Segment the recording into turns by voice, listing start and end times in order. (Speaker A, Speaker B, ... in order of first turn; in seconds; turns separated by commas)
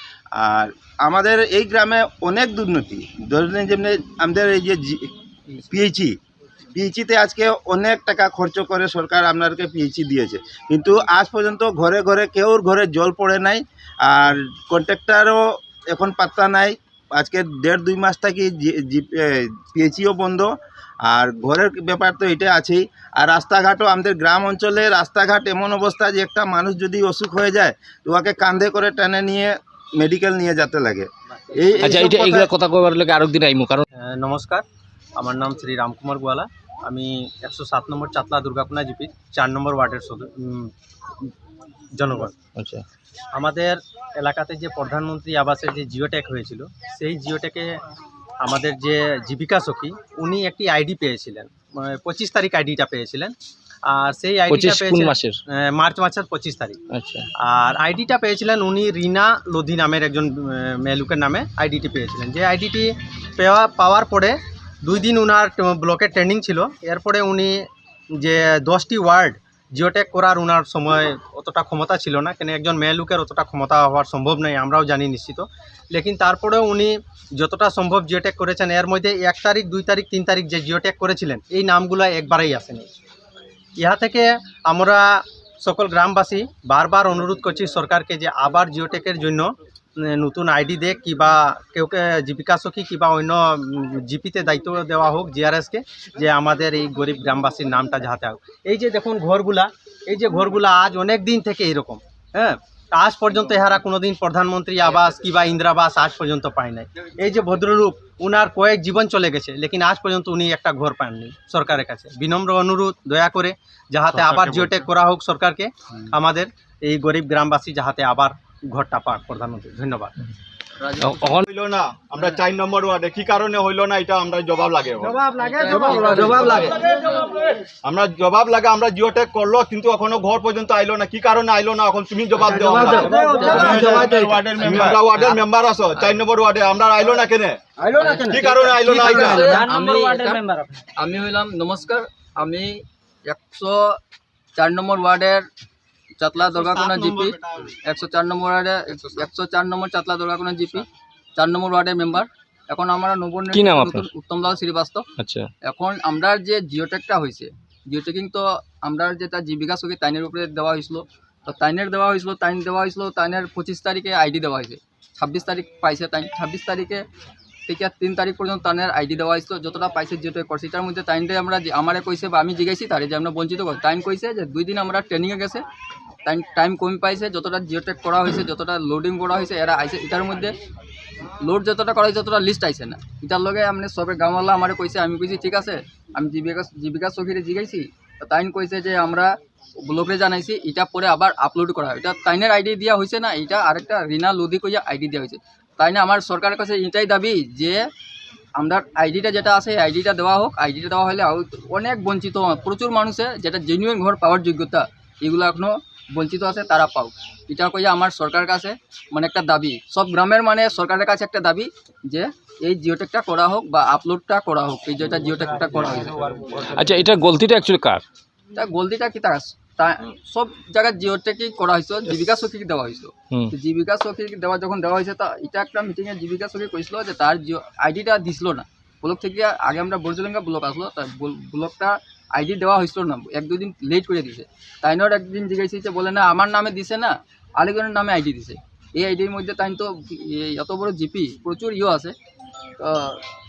Speaker A: 0.4-5.1, Speaker A: 5.7-6.2, Speaker A: 6.7-20.5, Speaker A: 21.1-32.5, Speaker B: 31.8-33.8, Speaker C: 34.0-34.6, Speaker C: 35.2-40.7, Speaker C: 41.9-42.3, Speaker B: 42.5-42.8, Speaker C: 43.3-47.8, Speaker C: 48.4-53.3, Speaker C: 53.9-56.8, Speaker B: 54.5-55.4, Speaker B: 56.9-57.2, Speaker C: 57.4-67.6, Speaker C: 68.2-82.9, Speaker C: 83.8-89.5, Speaker C: 90.0-120.1, Speaker D: 114.2-114.7, Speaker E: 120.8-121.3, Speaker B: 121.0-121.5, Speaker D: 121.4-125.2, Speaker E: 125.2-127.2, Speaker D: 125.9-126.4, Speaker D: 127.8-133.6, Speaker E: 132.4-135.4, Speaker A: 133.3-135.1, Speaker D: 134.6-137.6, Speaker E: 137.9-140.4, Speaker D: 138.2-139.7, Speaker E: 140.9-144.0, Speaker E: 144.6-145.5, Speaker E: 146.2-155.1, Speaker C: 146.4-147.7, Speaker B: 153.5-154.1, Speaker B: 155.2-155.5, Speaker E: 155.6-167.0, Speaker E: 167.7-175.6, Speaker E: 176.2-180.5, Speaker E: 181.4-189.3, Speaker E: 189.8-197.8, Speaker E: 198.6-216.7, Speaker B: 216.7-218.0, Speaker E: 218.5-242.1, Speaker E: 242.8-243.2